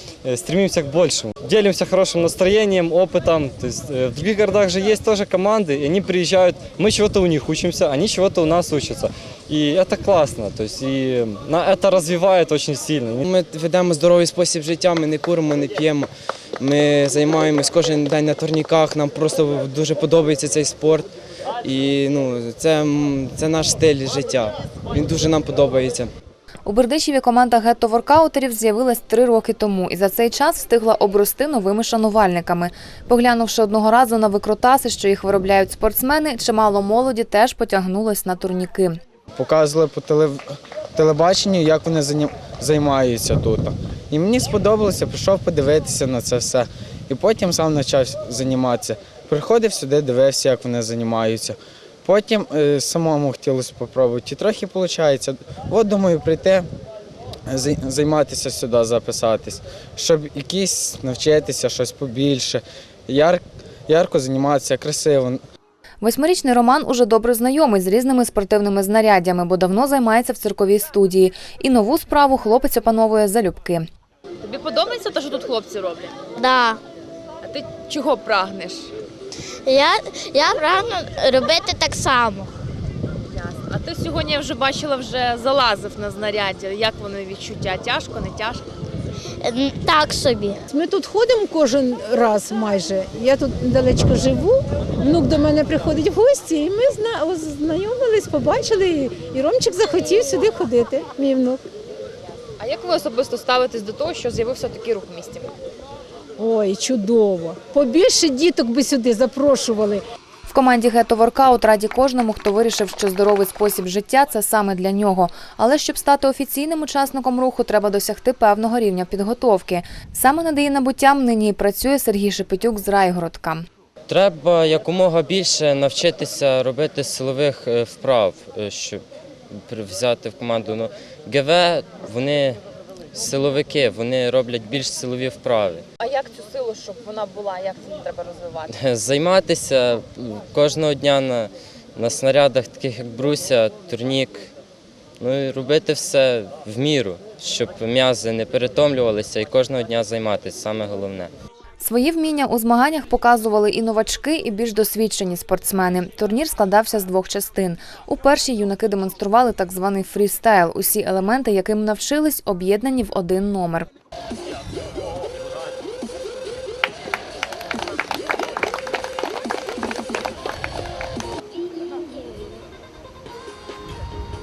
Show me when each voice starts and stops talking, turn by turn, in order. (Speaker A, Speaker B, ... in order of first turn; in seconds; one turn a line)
Speaker A: 0.2-13.3
Speaker B: 13.2-21.1
Speaker B: 21.6-26.1
Speaker C: 26.6-39.0
Speaker D: 39.4-40.4
Speaker D: 41.0-56.6
Speaker D: 57.5-65.4
Speaker C: 66.0-73.8
Speaker E: 74.4-76.2
Speaker F: 76.3-76.8
Speaker E: 77.4-78.9
Speaker F: 79.7-82.5
Speaker E: 83.3-88.6
Speaker F: 89.4-90.6
Speaker G: 90.7-101.6
Speaker E: 102.6-105.5
Speaker G: 106.4-110.0
Speaker C: 110.5-123.7
Speaker H: 124.1-129.0
Speaker H: 129.7-132.6
Speaker H: 133.1-135.8
Speaker E: 136.0-138.7
Speaker H: 138.7-144.5
Speaker H: 145.2-151.3
Speaker C: 151.8-163.9